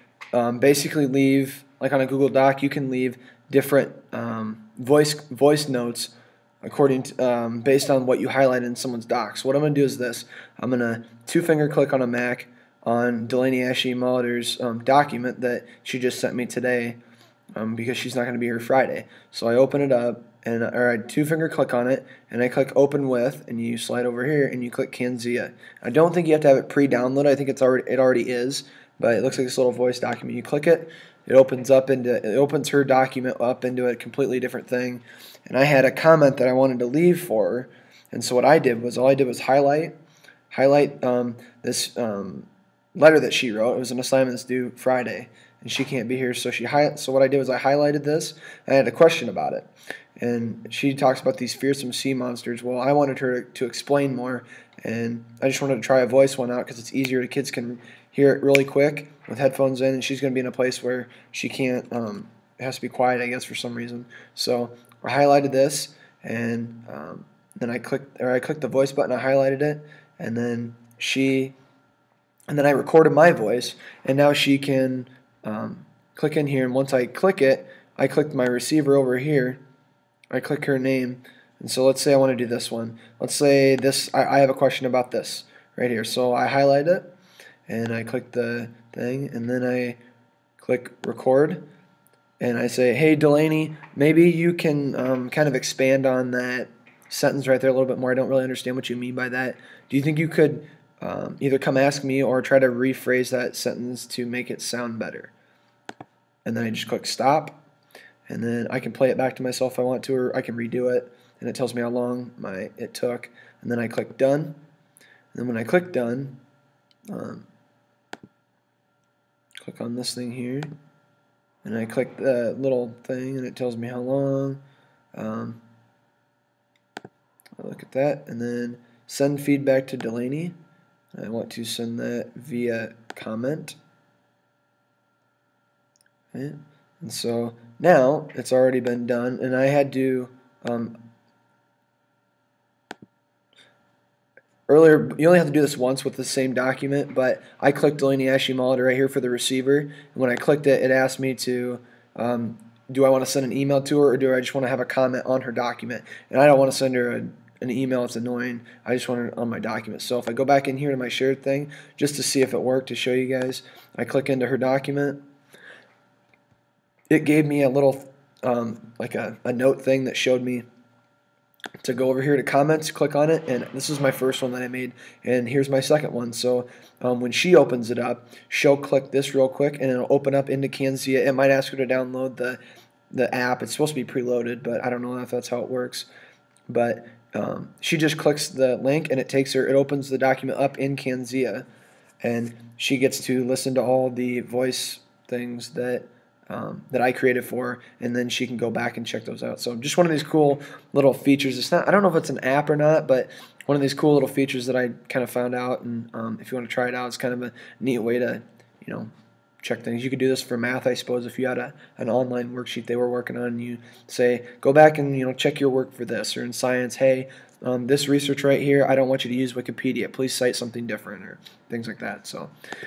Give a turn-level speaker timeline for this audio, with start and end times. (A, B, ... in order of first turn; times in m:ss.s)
0:00.3-0:17.0 A
0:17.6-0:40.0 A
0:40.5-1:11.6 A
1:12.5-1:19.6 A
1:20.3-1:27.1 A
1:27.7-1:30.0 A
1:30.6-1:31.6 A
1:32.4-1:45.3 A
1:46.4-1:47.6 A
1:48.3-1:54.6 A
1:55.3-1:56.4 A
1:57.1-1:57.5 A
1:59.6-2:00.7 A
2:01.6-2:04.6 A
2:05.1-2:05.6 A
2:07.6-2:10.6 A
2:11.1-2:13.8 A
2:16.3-2:21.1 A
2:24.7-2:45.2 A
2:47.1-2:50.6 A
2:51.8-3:02.6 A
3:03.1-3:06.1 A
3:06.7-3:11.7 A
3:12.2-3:42.5 A